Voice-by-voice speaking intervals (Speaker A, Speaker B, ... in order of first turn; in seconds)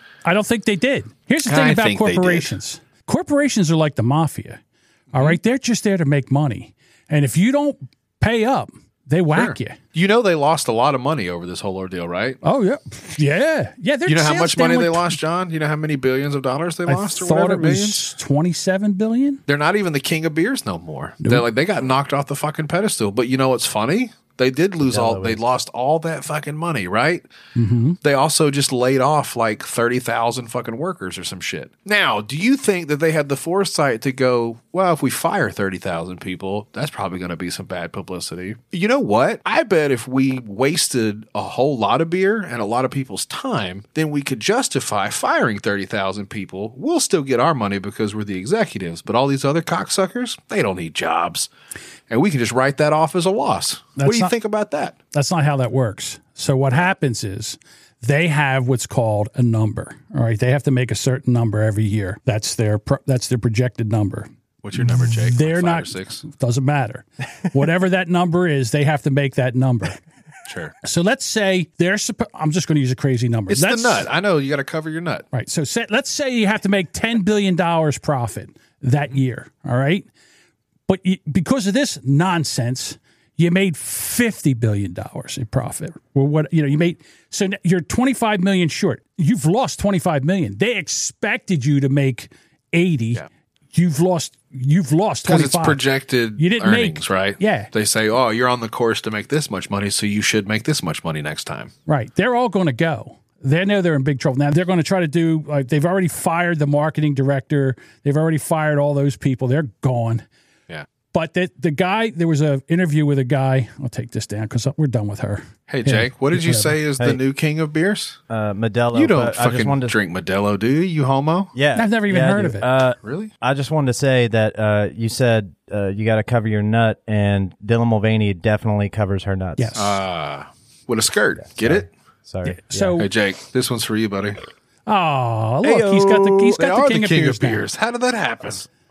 Speaker A: 0.2-4.6, 5.1-9.8, 12.4-15.2, 16.9-19.4, 27.6-28.0, 54.0-54.3, 55.1-70.0, 70.8-74.0, 75.3-80.1, 80.9-95.8, 96.4-97.7, 101.9-110.2, 111.1-116.7, 121.7-122.7, 129.6-130.0, 132.4-133.1, 134.9-137.6
Speaker B: 1.4-2.5, 5.1-5.4, 9.3-12.4, 14.1-18.1, 19.5-27.3, 28.0-51.5, 52.1-55.0, 64.6-66.2, 70.5-70.8, 73.5-75.2, 95.2-101.7, 115.7-118.2, 118.9-121.5, 123.0-123.3, 129.8-131.9, 133.0-134.4, 136.6-138.7
Speaker C: 24.8-25.4, 118.3-120.0, 121.5-129.8, 131.4-133.0, 135.6-136.6